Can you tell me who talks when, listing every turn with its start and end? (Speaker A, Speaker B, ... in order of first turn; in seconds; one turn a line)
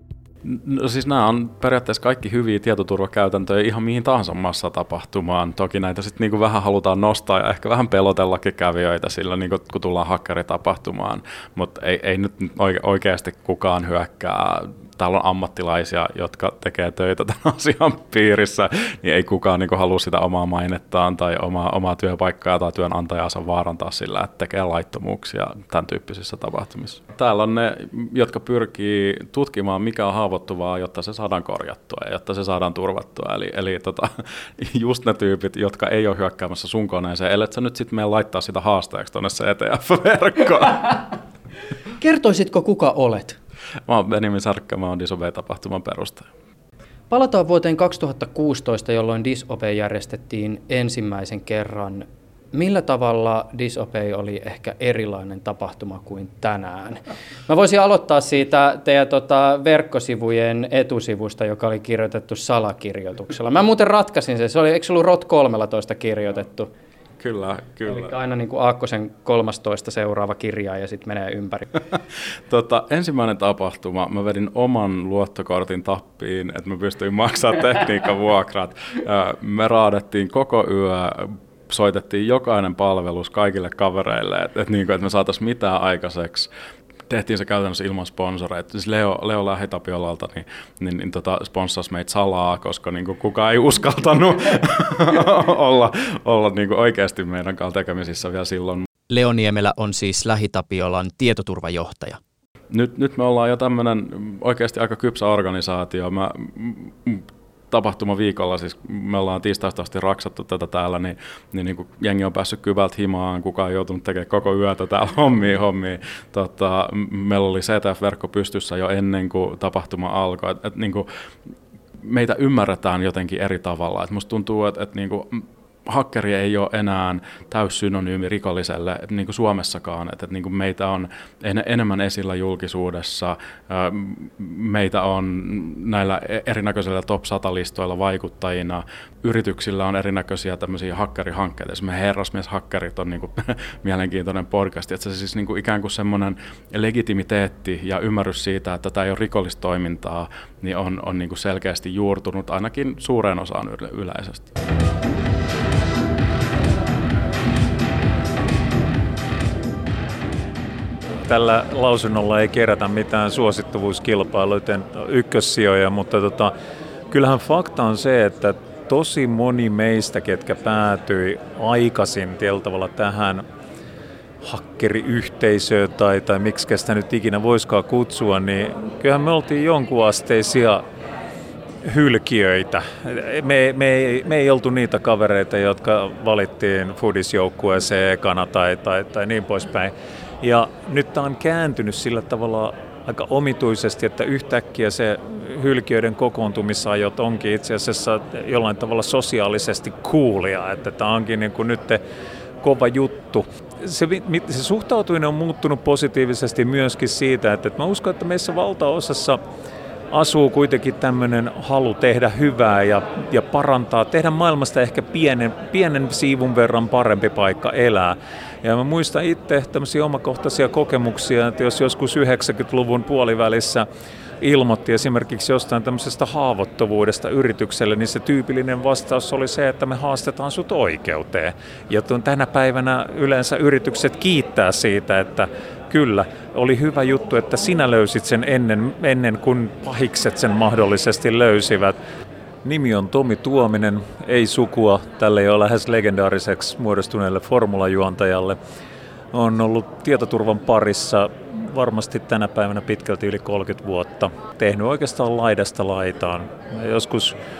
Speaker A: 0.4-41.0
Speaker B: 42.0-43.4
Speaker A: 43.9-46.3
Speaker B: 47.1-66.7
Speaker A: 67.2-68.1
Speaker B: 67.9-71.7
Speaker A: 72.5-86.5
Speaker A: 87.1-98.8
Speaker B: 99.1-102.2
Speaker A: 102.7-121.1
Speaker A: 122.0-154.5
Speaker C: 161.2-166.5
Speaker C: 167.1-173.4
Speaker C: 174.4-180.8
Speaker C: 181.8-202.0
Speaker C: 202.6-209.4
Speaker C: 210.1-223.9
Speaker C: 224.4-242.0
Speaker C: 242.6-248.6
Speaker C: 249.3-257.3